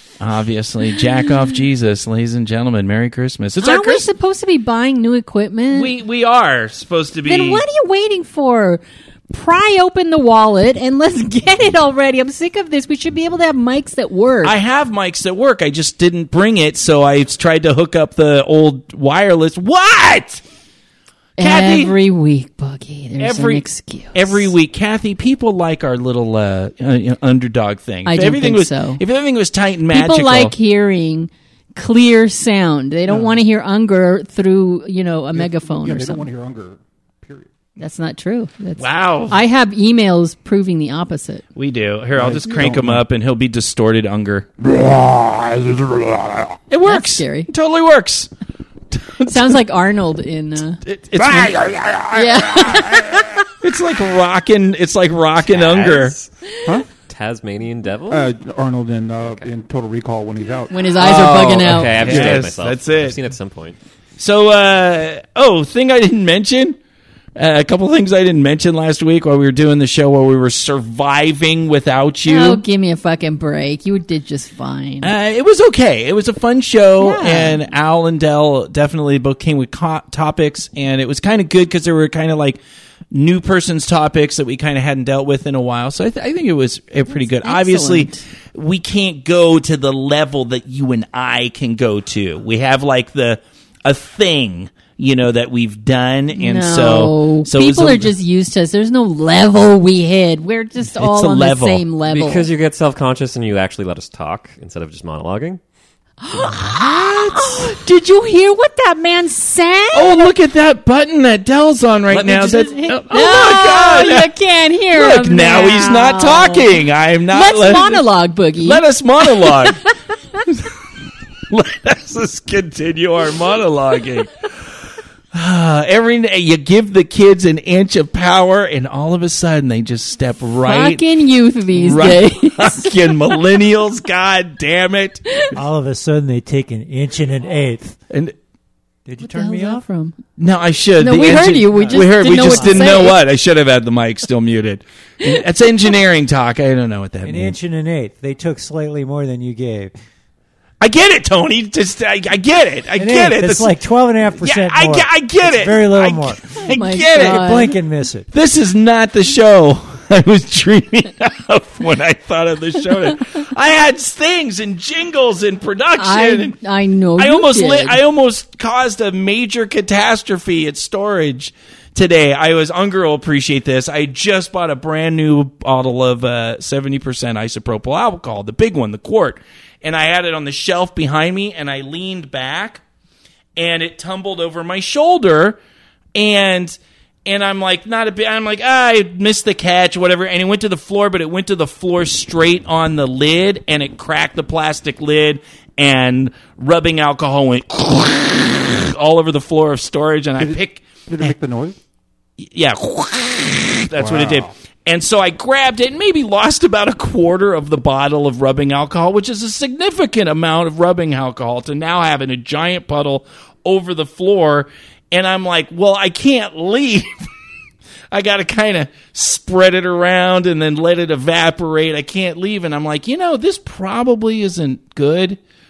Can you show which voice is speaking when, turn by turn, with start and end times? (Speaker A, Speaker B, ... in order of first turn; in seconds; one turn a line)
Speaker A: 0.2-4.0
Speaker B: 3.6-5.9
Speaker A: 5.7-7.7
Speaker B: 7.2-14.5
Speaker A: 14.4-20.4
Speaker A: 21.4-21.9
Speaker B: 21.4-24.5
Speaker A: 23.2-30.5
Speaker B: 28.0-29.0
Speaker B: 29.9-36.2
Speaker C: 33.1-33.4
Speaker C: 35.3-37.5
Speaker B: 37.8-41.4
Speaker A: 38.8-39.4
Speaker A: 41.5-44.5
Speaker C: 42.1-43.0
Speaker C: 44.6-46.6
Speaker A: 46.7-48.3
Speaker B: 46.8-47.5
Speaker A: 48.9-49.6
Speaker B: 49.3-50.8
Speaker A: 50.8-51.8
Speaker C: 51.1-53.4
Speaker B: 52.1-53.4
Speaker A: 53.6-56.1
Speaker D: 55.5-58.3
Speaker C: 58.1-60.8
Speaker B: 60.7-62.4
Speaker D: 61.0-63.8
Speaker A: 61.2-63.2
Speaker A: 64.2-66.8
Speaker A: 67.3-72.6
Speaker B: 72.2-75.1
Speaker A: 75.0-82.6
Speaker B: 77.0-77.6
Speaker A: 83.1-98.1
Speaker B: 87.4-88.2
Speaker B: 96.3-102.5
Speaker A: 100.9-101.8
Speaker D: 102.1-105.6
Speaker B: 106.2-110.3
Speaker A: 106.4-107.7
Speaker A: 109.9-114.3
Speaker D: 112.1-112.8
Speaker B: 112.7-119.9
Speaker A: 114.9-118.0
Speaker A: 118.6-119.8
Speaker A: 120.5-120.7
Speaker A: 121.5-124.7
Speaker A: 125.3-131.0
Speaker B: 130.6-132.9
Speaker A: 131.7-135.2
Speaker E: 135.5-138.0
Speaker A: 138.1-138.3
Speaker E: 139.1-139.8
Speaker B: 139.2-140.2
Speaker A: 140.4-147.6
Speaker B: 141.0-143.2
Speaker E: 141.2-143.0
Speaker E: 147.2-149.9
Speaker A: 150.8-153.7
Speaker E: 153.0-158.3
Speaker A: 154.4-157.6
Speaker B: 156.7-157.7
Speaker A: 158.3-166.6
Speaker B: 166.0-168.0
Speaker A: 167.2-182.8
Speaker A: 183.6-185.6
Speaker A: 186.1-201.3
Speaker C: 200.4-201.8
Speaker A: 202.4-217.3
Speaker C: 203.9-204.5
Speaker A: 218.1-225.4